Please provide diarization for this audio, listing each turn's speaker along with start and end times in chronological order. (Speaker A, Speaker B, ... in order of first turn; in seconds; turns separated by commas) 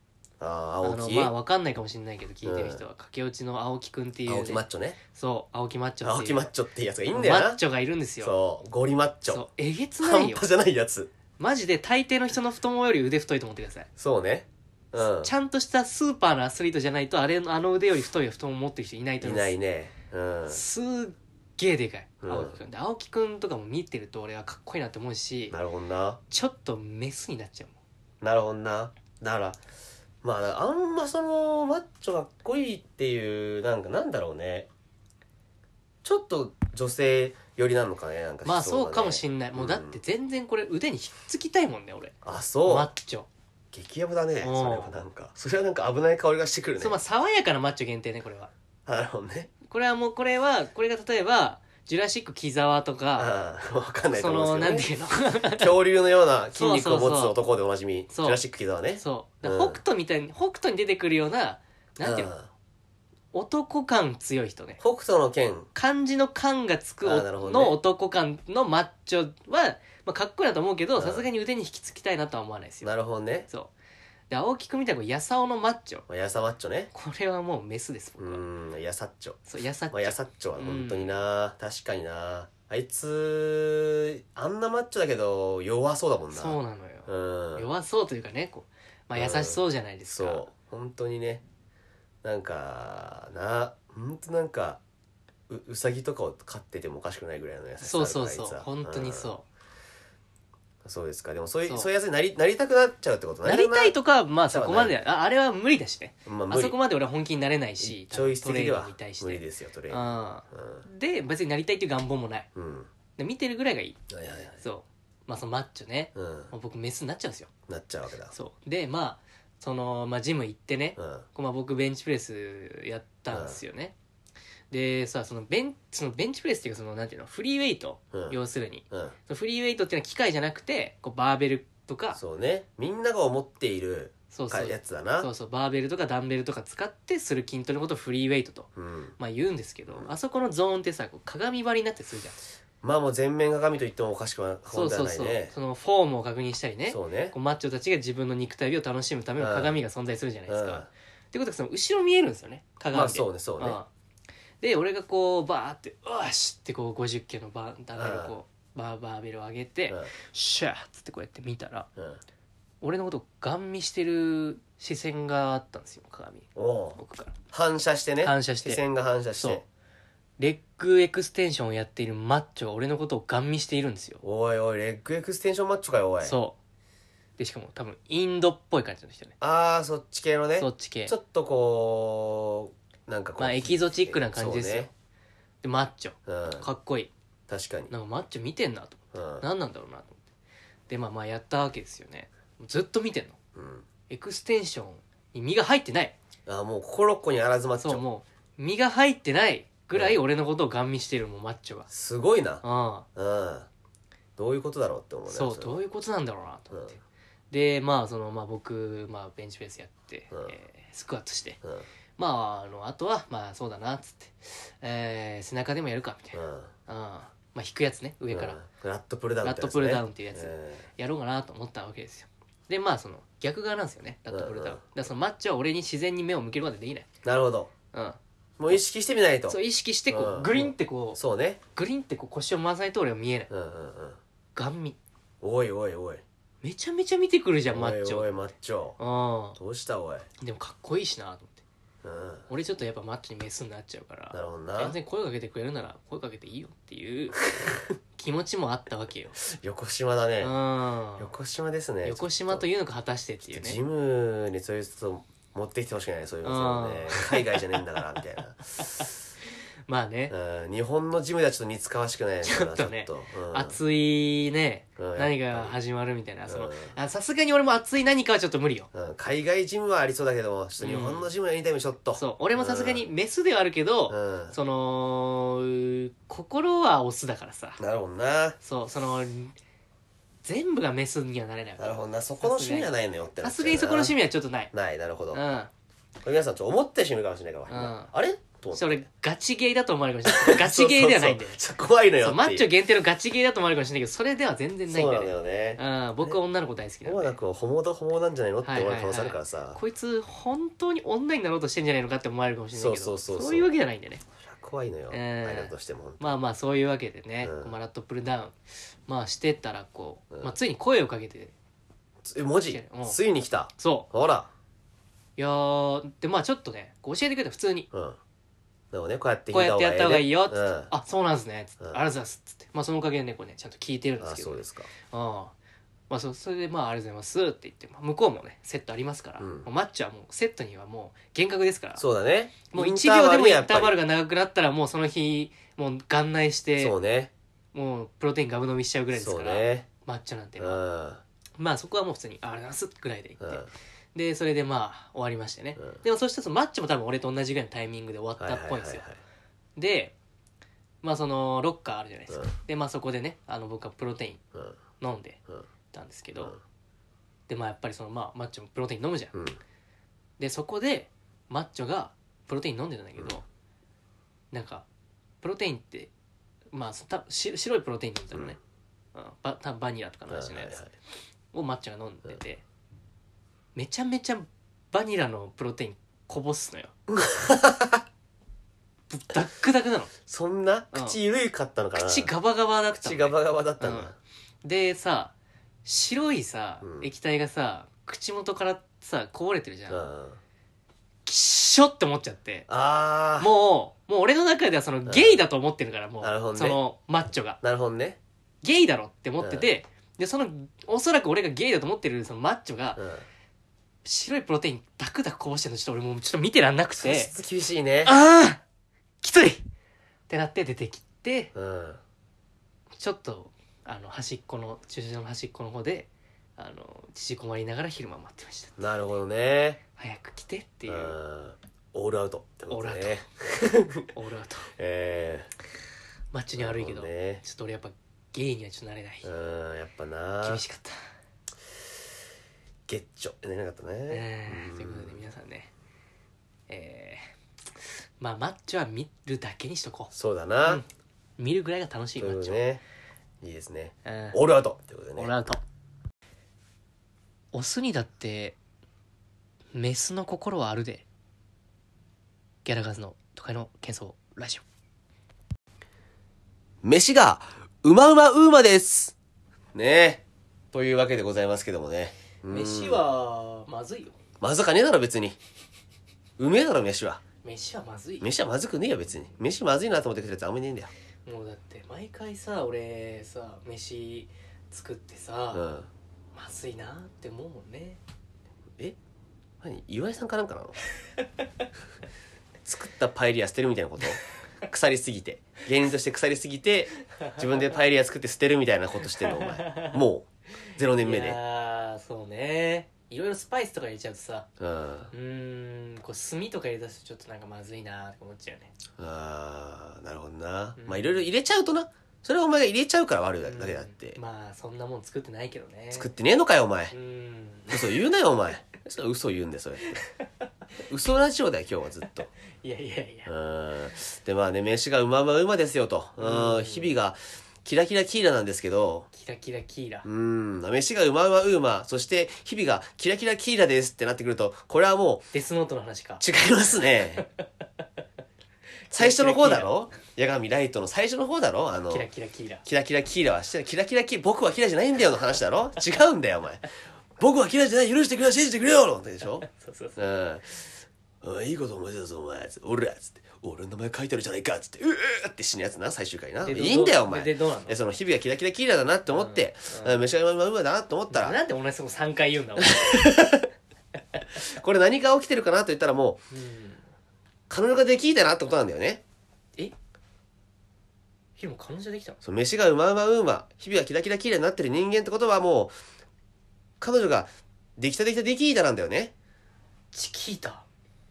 Speaker A: 0.4-1.3, Speaker B: 0.8-6.5, Speaker A: 2.4-2.8, Speaker A: 4.3-5.0, Speaker A: 6.0-7.6, Speaker B: 7.1-8.3, Speaker A: 8.2-9.4, Speaker B: 9.3-10.5, Speaker A: 10.0-11.1, Speaker B: 11.4-13.9, Speaker A: 14.0-15.3, Speaker B: 15.0-19.5, Speaker A: 19.2-20.6, Speaker B: 20.5-25.6, Speaker A: 22.2-22.6, Speaker A: 25.5-26.2, Speaker B: 26.3-27.8, Speaker A: 28.2-29.6, Speaker A: 30.2-34.7, Speaker A: 36.0-40.0, Speaker B: 38.4-43.3, Speaker A: 42.2-42.9, Speaker A: 43.7-47.0, Speaker B: 44.4-45.0, Speaker B: 46.8-48.5, Speaker A: 48.9-49.5, Speaker B: 49.6-53.3, Speaker A: 53.1-54.9, Speaker B: 54.1-55.7, Speaker A: 55.5-59.8, Speaker B: 56.5-57.4, Speaker B: 58.1-58.4, Speaker B: 59.0-62.3, Speaker A: 62.0-62.5, Speaker B: 63.3-64.8, Speaker A: 64.8-65.7, Speaker B: 65.7-72.9, Speaker A: 67.0-67.8, Speaker A: 71.0-71.3, Speaker A: 72.8-73.5, Speaker B: 74.3-76.0, Speaker A: 76.1-76.9, Speaker B: 76.9-78.4, Speaker A: 78.2-79.4, Speaker B: 79.5-81.2, Speaker A: 79.9-87.7, Speaker B: 86.3-90.5, Speaker A: 89.1-91.4, Speaker A: 92.2-94.8, Speaker A: 95.5-99.3, Speaker B: 97.8-99.5, Speaker A: 100.8-103.9, Speaker B: 103.4-112.5, Speaker A: 104.5-105.0, Speaker A: 106.2-106.8, Speaker A: 107.8-110.8, Speaker A: 112.5-112.9, Speaker B: 113.2-114.0, Speaker A: 114.1-114.6, Speaker B: 114.6-117.5, Speaker A: 116.1-116.5, Speaker A: 117.7-118.3, Speaker B: 118.3-123.9, Speaker A: 121.0-121.2, Speaker A: 123.3-123.6, Speaker B: 124.7-132.2, Speaker A: 128.1-128.4, Speaker A: 132.1-135.3, Speaker B: 134.3-142.4, Speaker A: 138.8-139.1, Speaker A: 142.8-145.5, Speaker B: 144.7-153.9, Speaker A: 146.9-147.3, Speaker A: 149.4-149.8, Speaker A: 150.5-150.9, Speaker A: 152.9-153.8, Speaker B: 154.6-161.9, Speaker A: 157.9-158.3, Speaker A: 161.9-162.2, Speaker B: 162.8-167.3, Speaker A: 166.6-167.0, Speaker A: 167.5-169.6, Speaker B: 168.2-168.8, Speaker B: 169.3-169.6, Speaker B: 170.4-174.2, Speaker A: 174.2-176.3, Speaker B: 176.2-176.6, Speaker B: 177.4-179.3, Speaker A: 179.4-184.9, Speaker B: 180.6-181.1, Speaker B: 183.4-184.9, Speaker B: 185.6-187.1, Speaker A: 186.2-186.7, Speaker A: 187.5-187.9, Speaker B: 187.9-190.2, Speaker A: 189.1-189.4, Speaker B: 190.9-193.4, Speaker A: 193.5-193.8, Speaker B: 194.1-196.2, Speaker A: 196.4-198.0, Speaker B: 197.8-201.9, Speaker A: 199.9-200.2, Speaker A: 201.9-202.6, Speaker B: 202.6-203.1, Speaker A: 203.1-203.7, Speaker A: 204.4-205.8, Speaker B: 205.3-207.0, Speaker B: 207.5-211.6, Speaker B: 212.2-218.6, Speaker A: 216.3-216.7, Speaker A: 218.3-220.9, Speaker B: 219.4-227.1, Speaker A: 224.3-224.8, Speaker A: 227.2-227.7, Speaker B: 227.9-228.2, Speaker A: 228.6-229.6, Speaker B: 229.5-231.2, Speaker A: 230.1-231.6, Speaker B: 231.7-233.5, Speaker A: 233.5-234.2, Speaker B: 234.5-235.0, Speaker A: 235.4-236.2, Speaker B: 236.6-238.3, Speaker A: 237.7-239.0, Speaker B: 239.0-239.6, Speaker A: 239.6-240.3, Speaker B: 240.4-241.6, Speaker A: 242.0-242.5, Speaker B: 242.5-247.4, Speaker A: 244.3-244.9, Speaker A: 247.5-247.9, Speaker B: 248.2-249.4, Speaker A: 249.4-250.5, Speaker B: 250.4-251.3, Speaker A: 251.2-252.7, Speaker B: 252.0-253.8, Speaker A: 253.4-259.1, Speaker B: 256.4-257.6, Speaker B: 259.9-260.3, Speaker A: 260.3-263.8, Speaker B: 262.4-268.9, Speaker A: 265.0-265.8, Speaker A: 266.5-266.9, Speaker A: 268.9-273.1, Speaker B: 270.8-271.3, Speaker B: 272.1-277.8, Speaker A: 274.1-274.6, Speaker A: 277.8-278.6, Speaker B: 278.6-279.5, Speaker B: 280.4-282.9, Speaker A: 281.8-284.1, Speaker B: 283.4-284.7, Speaker A: 284.7-285.4, Speaker B: 285.3-285.7, Speaker A: 286.2-289.0, Speaker B: 287.7-288.1, Speaker B: 288.7-291.6, Speaker A: 290.2-292.7, Speaker B: 292.2-297.4, Speaker A: 294.9-296.4, Speaker A: 297.0-299.8, Speaker B: 298.6-304.2, Speaker A: 302.7-303.7, Speaker A: 304.4-306.3, Speaker B: 305.1-308.6, Speaker A: 307.4-307.7, Speaker B: 309.1-311.5, Speaker A: 312.2-314.5, Speaker B: 312.7-313.2, Speaker B: 313.8-314.1, Speaker B: 315.4-317.9, Speaker A: 317.9-318.2, Speaker A: 318.9-320.9, Speaker B: 319.5-325.5, Speaker A: 324.2-324.9, Speaker B: 326.1-332.0, Speaker A: 329.4-329.7, Speaker A: 332.0-333.9, Speaker B: 332.7-336.9, Speaker A: 336.8-337.3, Speaker B: 337.7-340.8, Speaker A: 339.1-339.9, Speaker A: 340.6-341.2, Speaker B: 341.6-349.0, Speaker A: 343.4-343.7, Speaker A: 348.4-349.2, Speaker B: 349.8-350.1, Speaker B: 351.0-354.4, Speaker B: 355.0-355.4, Speaker B: 355.9-356.6, Speaker B: 357.5-359.3, Speaker A: 359.3-359.6, Speaker B: 360.4-363.4, Speaker B: 364.5-364.9, Speaker B: 365.4-366.1, Speaker B: 366.7-368.6, Speaker B: 369.1-370.8, Speaker A: 370.3-370.9, Speaker B: 371.5-372.6, Speaker B: 373.7-376.9, Speaker A: 377.1-378.0, Speaker B: 379.1-380.1, Speaker A: 380.2-382.3, Speaker B: 380.9-381.2, Speaker B: 381.9-384.1, Speaker A: 382.9-384.1, Speaker B: 384.6-385.3, Speaker B: 385.8-390.0, Speaker A: 386.8-387.1, Speaker A: 389.9-390.4, Speaker B: 391.2-392.7, Speaker A: 392.7-393.5, Speaker B: 393.4-397.6, Speaker A: 395.1-395.4, Speaker A: 396.2-396.8, Speaker A: 397.6-398.2, Speaker B: 398.6-403.0, Speaker A: 399.4-399.7, Speaker A: 403.0-403.2, Speaker B: 404.0-407.3, Speaker A: 407.0-408.2, Speaker B: 408.0-408.6, Speaker B: 409.2-409.6, Speaker B: 410.3-411.5, Speaker A: 411.5-412.0, Speaker B: 413.0-418.7, Speaker A: 418.8-419.8, Speaker B: 420.0-421.1, Speaker A: 420.9-424.1, Speaker B: 422.7-423.2, Speaker B: 424.1-424.7, Speaker A: 424.8-425.5, Speaker B: 426.3-429.3, Speaker A: 426.6-427.4, Speaker A: 429.2-430.6, Speaker B: 430.4-431.0, Speaker A: 432.9-435.2, Speaker B: 434.1-435.7, Speaker B: 436.7-437.3, Speaker B: 438.2-440.1, Speaker A: 440.1-440.8, Speaker B: 441.4-442.6, Speaker A: 442.2-442.8, Speaker A: 443.4-445.3, Speaker B: 444.0-444.4, Speaker B: 445.1-445.6, Speaker B: 447.5-448.6, Speaker B: 449.7-451.0, Speaker B: 452.6-454.6, Speaker A: 456.8-459.1, Speaker A: 459.7-463.0, Speaker B: 462.5-464.2, Speaker A: 464.4-465.4, Speaker A: 466.4-467.2, Speaker B: 467.4-468.3, Speaker A: 468.2-470.9, Speaker B: 471.2-475.6, Speaker A: 475.5-475.9, Speaker B: 476.3-478.0, Speaker A: 479.6-480.8, Speaker A: 482.6-491.4, Speaker B: 489.2-490.0, Speaker B: 491.0-494.5, Speaker A: 494.6-495.1, Speaker B: 495.1-498.7, Speaker A: 499.0-504.2, Speaker B: 500.8-501.2, Speaker B: 503.4-506.1, Speaker A: 505.9-506.9, Speaker B: 506.9-508.0, Speaker A: 507.7-510.0, Speaker A: 510.9-512.3, Speaker B: 512.6-513.3, Speaker A: 513.2-519.1, Speaker B: 516.2-516.9, Speaker B: 519.1-520.1, Speaker A: 520.0-525.3, Speaker B: 525.3-526.2, Speaker A: 526.2-527.3, Speaker B: 528.9-529.7, Speaker A: 528.9-532.1, Speaker B: 531.9-532.6, Speaker A: 532.6-536.6, Speaker A: 537.2-540.7, Speaker B: 539.5-540.0, Speaker A: 541.2-551.4, Speaker B: 546.4-547.8, Speaker B: 549.1-550.0, Speaker B: 551.1-553.2, Speaker A: 552.6-553.5, Speaker A: 554.3-556.2, Speaker B: 556.3-556.8, Speaker A: 557.5-559.0, Speaker B: 561.4-562.2, Speaker A: 562.2-565.7, Speaker A: 566.8-569.1, Speaker B: 569.9-570.6